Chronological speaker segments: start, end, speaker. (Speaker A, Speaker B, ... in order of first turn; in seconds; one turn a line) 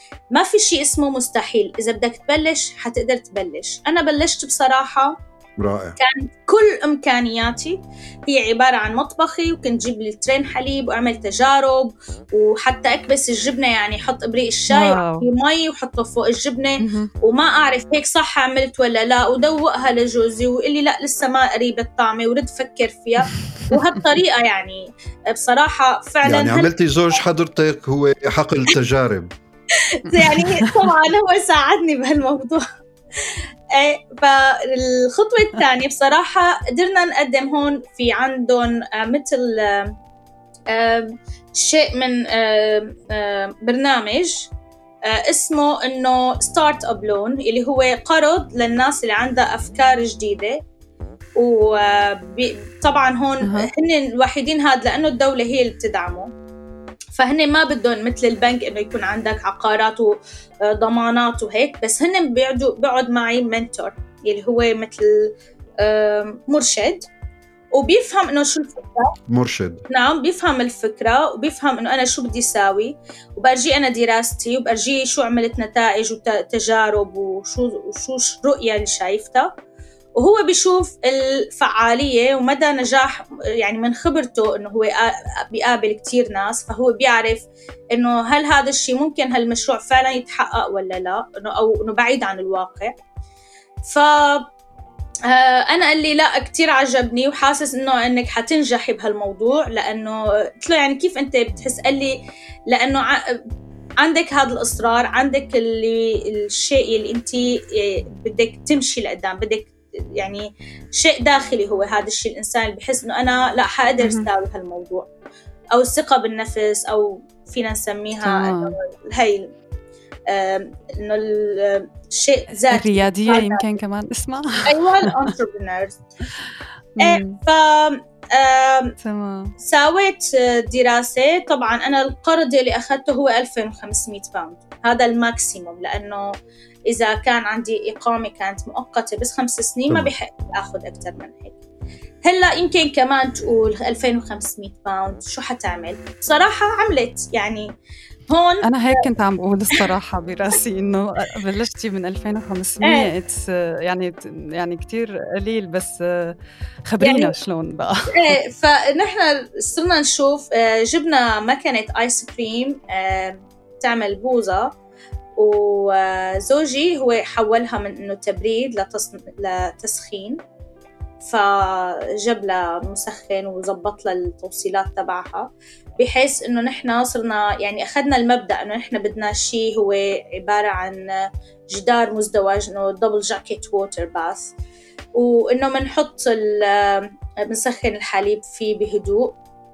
Speaker A: 0.3-5.2
Speaker B: 5.6-6.0
Speaker A: 6.0-26.7
Speaker C: 14.7-15.2
Speaker C: 16.8-17.1
Speaker B: 26.2-29.3
Speaker A: 29.8-32.6
Speaker C: 30.1-30.9
Speaker A: 33.2-39.9
Speaker A: 40.7-44.5
Speaker A: 45.1-50.6
Speaker A: 51.4-56.3
Speaker A: 57.2-67.0
Speaker A: 67.8-69.1
Speaker B: 69.3-69.8
Speaker A: 69.9-79.5
Speaker A: 80.2-92.9
Speaker A: 93.9-94.5
Speaker A: 95.3-102.2
Speaker A: 102.7-103.4
Speaker A: 104.0-115.1
Speaker C: 114.0-114.3
Speaker A: 115.7-119.5
Speaker C: 118.2-118.8
Speaker A: 120.3-123.7
Speaker C: 122.7-125.3
Speaker A: 124.6-126.0
Speaker C: 127.0-127.4
Speaker A: 127.0-128.9
Speaker C: 129.0-129.5
Speaker A: 129.6-136.3
Speaker A: 136.9-141.6
Speaker A: 142.2-147.7
Speaker A: 148.3-149.1
Speaker C: 148.6-158.3
Speaker A: 152.8-153.1
Speaker A: 157.0-157.3
Speaker A: 158.1-164.7
Speaker A: 165.4-170.4
Speaker A: 171.2-175.4
Speaker A: 176.0-181.1
Speaker A: 181.7-184.5
Speaker A: 185.1-189.3